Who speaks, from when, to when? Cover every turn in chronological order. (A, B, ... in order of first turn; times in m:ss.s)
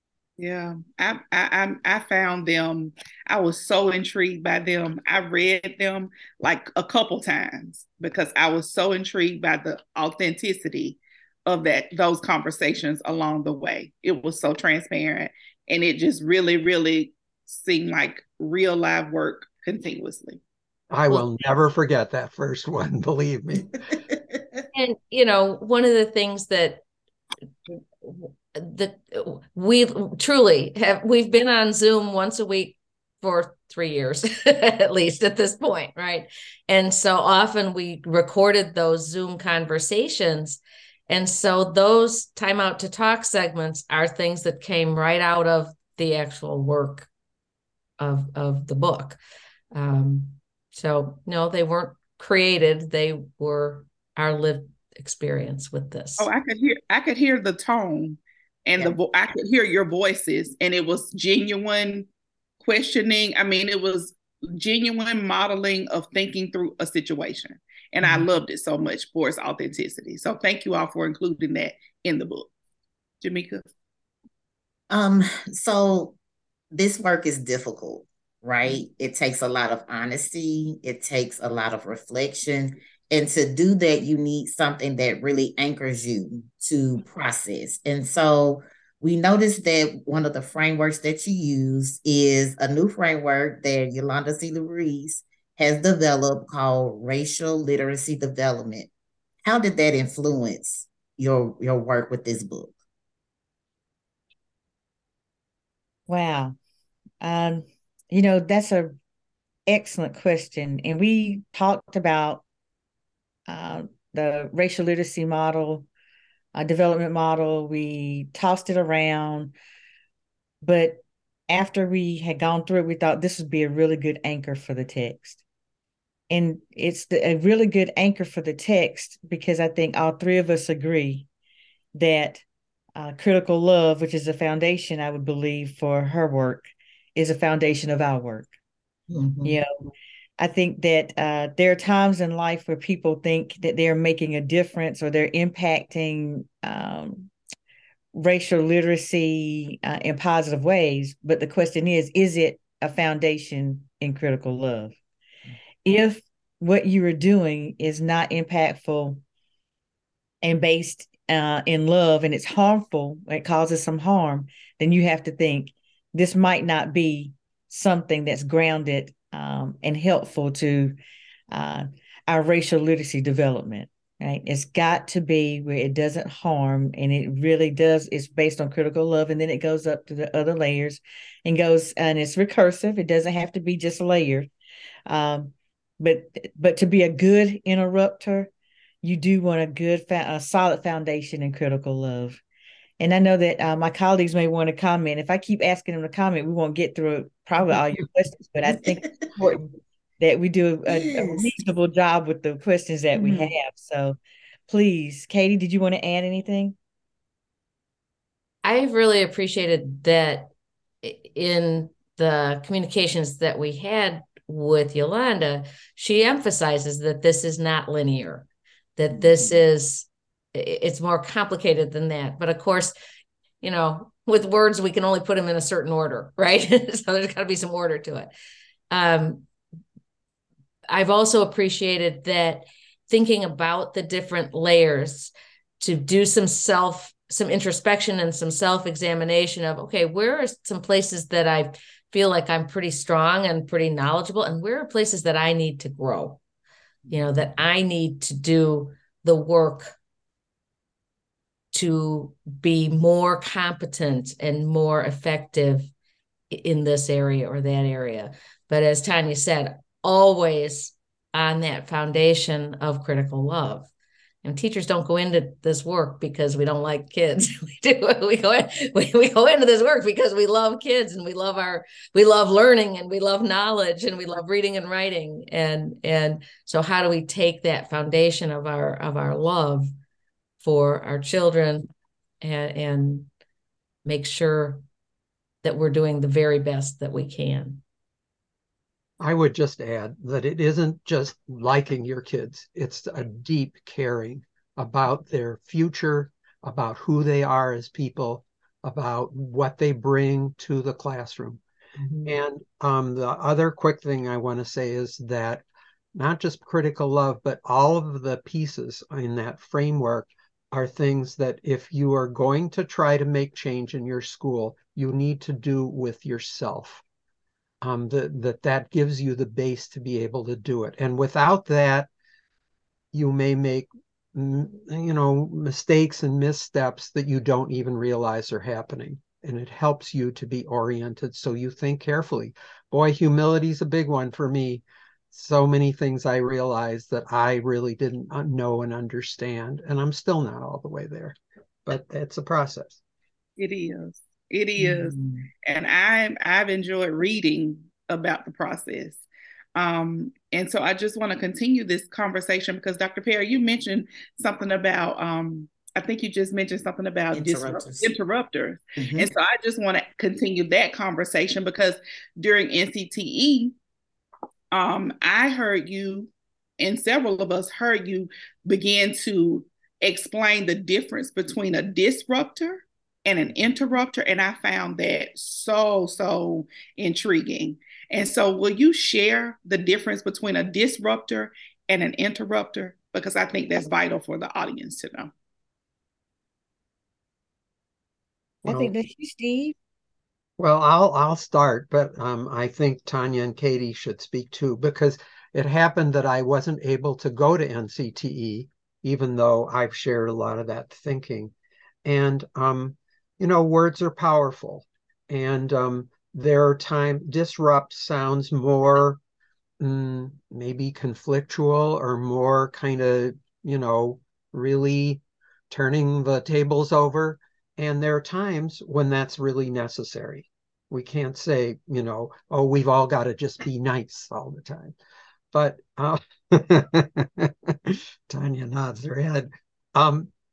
0:00.4-0:20.4 A
0:20.9-0:23.8 B
0:24.7-0:26.8 C
0:27.7-0:47.1 C
0:48.0-0:49.2 C
0:49.7-0:56.3 C
0:56.2-1:02.1 A
1:02.6-1:12.5 A
1:13.2-1:13.7 A
1:14.9-1:16.2 D
1:16.7-1:38.9 D
1:39.4-1:42.7 D
1:46.1-1:46.6 E
1:47.2-1:48.9 E
1:49.7-1:52.4 E
1:53.5-1:55.9 E
1:56.5-1:59.5 E
2:00.6-2:05.4 E
2:06.3-2:11.3 E
2:11.9-2:12.4 E
2:13.0-2:18.5 E
2:19.1-2:19.6 D
2:19.4-2:19.7 E
2:20.4-2:27.3 E
2:28.1-2:35.0 E
2:35.8-2:39.2 E
2:40.4-2:51.0 E
2:51.5-3:04.5 E
3:05.1-3:08.5 E
3:09.0-3:12.4 E
3:13.0-3:26.8 E
3:18.7-3:19.2 D
3:20.9-3:21.4 D
3:28.6-3:42.9 C
3:39.2-3:39.5 D
3:43.6-3:48.3 C
3:48.9-3:49.5 C
3:50.9-4:06.4 C
4:07.1-4:09.9 C
4:11.7-4:15.9 C
4:16.5-4:23.9 C
4:24.4-4:39.9 C
4:40.6-4:41.9 C
4:42.4-4:43.3 C
4:44.0-4:44.8 C
4:45.6-4:47.8 C
4:49.2-5:01.6 B
5:02.2-5:17.0 B
5:17.8-5:22.1 B
5:23.1-5:43.0 B
5:43.6-5:49.2 A
5:49.7-6:03.7 A
5:57.3-5:58.2 D
5:59.0-5:59.3 D
6:04.7-6:25.3 A
6:28.6-6:28.9 B
6:28.6-6:29.7 E
6:30.6-6:41.5 B
6:42.0-6:49.2 B
6:49.8-7:05.0 B
7:05.5-7:10.3 B